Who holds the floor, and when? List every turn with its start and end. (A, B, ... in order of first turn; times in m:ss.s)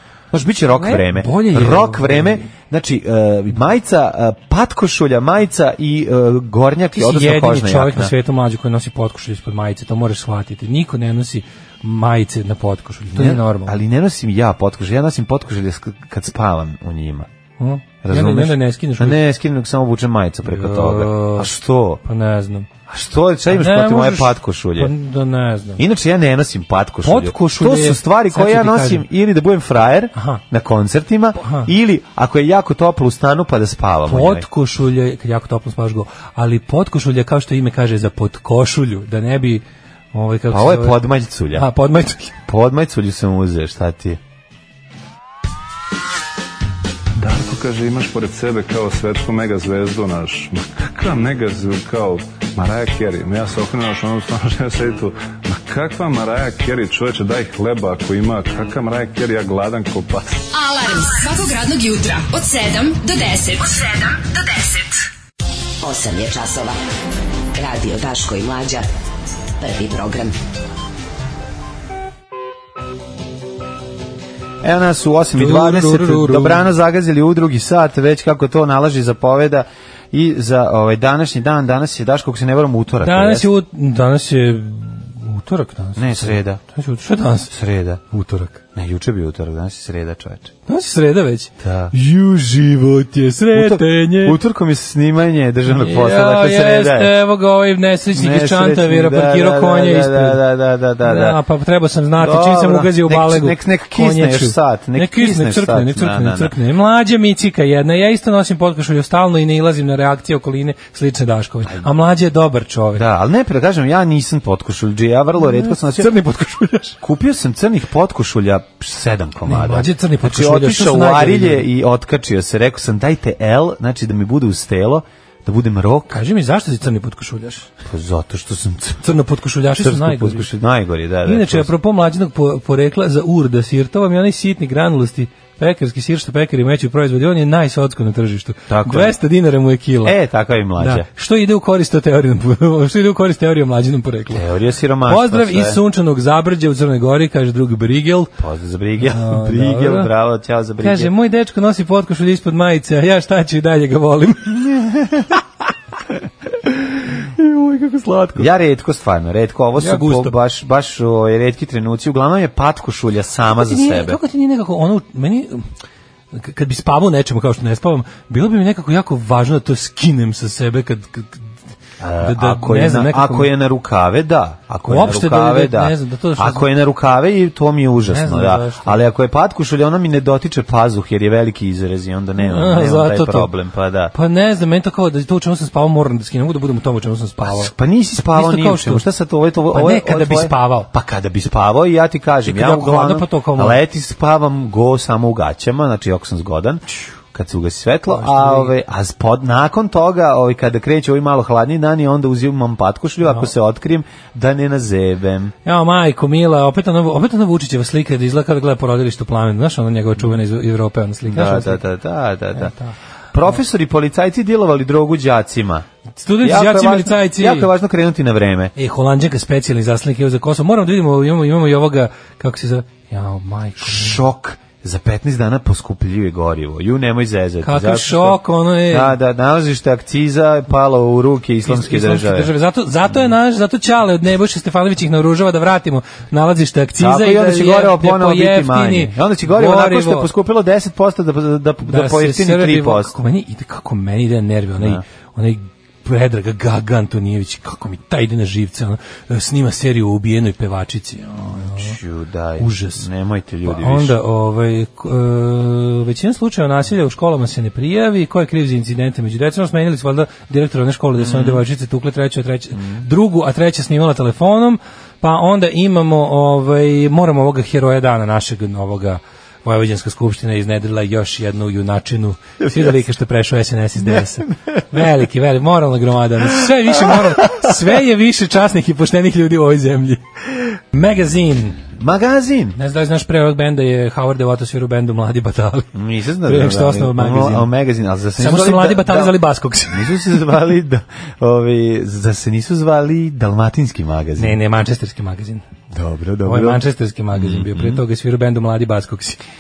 0:00.3-0:08.1 A
0:00.8-0:02.5 B
0:06.9-0:13.8 B
0:13.1-0:17.3 A
0:17.6-0:19.2 B
0:18.0-0:22.0 A
0:20.5-0:21.5 B
0:22.0-0:22.7 B
0:22.9-0:24.9 A
0:23.5-0:25.8 B
0:25.8-0:34.5 A
0:27.0-0:29.1 B
0:30.2-0:30.4 B
0:31.4-0:31.7 B
0:34.1-0:41.0 B
0:40.5-0:41.7 A
0:41.5-0:42.4 B
0:42.5-0:44.2 A
0:47.2-1:00.3 C
1:00.5-1:05.0 D
1:05.8-1:06.8 E
1:07.6-1:08.9 E
1:09.6-1:10.4 E
1:14.6-1:23.5 A
1:15.4-1:16.6 B
1:23.0-1:27.5 B
1:26.0-1:26.6 A
1:27.5-1:28.0 A
1:28.1-1:28.6 B
1:28.7-1:30.5 A
1:30.7-1:34.4 B
1:31.6-1:31.9 A
1:33.5-1:37.1 A
1:35.7-1:40.4 B
1:38.1-1:41.4 A
1:41.0-1:53.0 B
1:42.2-1:46.5 A
1:53.0-1:56.1 A
1:55.4-1:57.0 B
1:57.0-2:06.2 A
1:59.5-2:01.7 B
2:06.1-2:07.7 B
2:07.8-2:09.1 A
2:09.0-2:10.5 B
2:09.8-2:11.7 A
2:11.2-2:20.2 B
2:18.7-2:19.2 A
2:20.0-2:21.1 A
2:20.8-2:24.4 B
2:24.3-2:25.8 A
2:25.1-2:28.3 B
2:28.4-2:31.1 A
2:29.1-2:30.1 B
2:30.8-2:34.8 B
2:34.8-2:35.2 A
2:36.7-2:38.5 B
2:38.4-2:44.2 A
2:39.8-2:40.3 B
2:43.6-2:45.7 B
2:46.3-2:51.4 B
2:52.0-3:04.1 A
2:52.2-2:53.5 B
2:54.9-2:56.7 B
2:58.1-2:59.0 B
3:02.4-3:03.5 B
3:04.1-3:07.7 B
3:07.4-3:25.5 A
3:08.3-3:09.0 B
3:09.7-3:10.9 B
3:12.5-3:13.8 B
3:18.1-3:18.7 B
3:25.6-3:31.8 B
3:31.3-3:32.7 A
3:32.5-3:32.9 B
3:33.3-3:35.8 A
3:36.2-3:37.7 B
3:36.4-3:38.7 A
3:38.8-3:44.2 B
3:43.8-3:52.5 A
3:47.6-3:49.1 B
3:51.7-4:00.3 B
3:57.0-4:03.1 A
4:01.9-4:12.0 B
4:11.5-4:14.2 A
4:12.6-4:13.1 B
4:13.6-4:40.2 B
4:21.2-4:21.6 A
4:22.8-4:23.1 A
4:32.6-4:32.9 A
4:36.9-4:37.7 A
4:40.9-4:41.8 B
4:41.9-4:42.8 A
4:42.8-4:45.9 B
4:45.9-4:49.4 A
4:46.4-4:47.7 B
4:48.4-4:50.2 B
4:49.9-4:54.6 A
4:54.4-4:55.6 B
4:55.9-4:56.8 A
4:56.5-4:59.4 B
4:57.3-4:58.0 A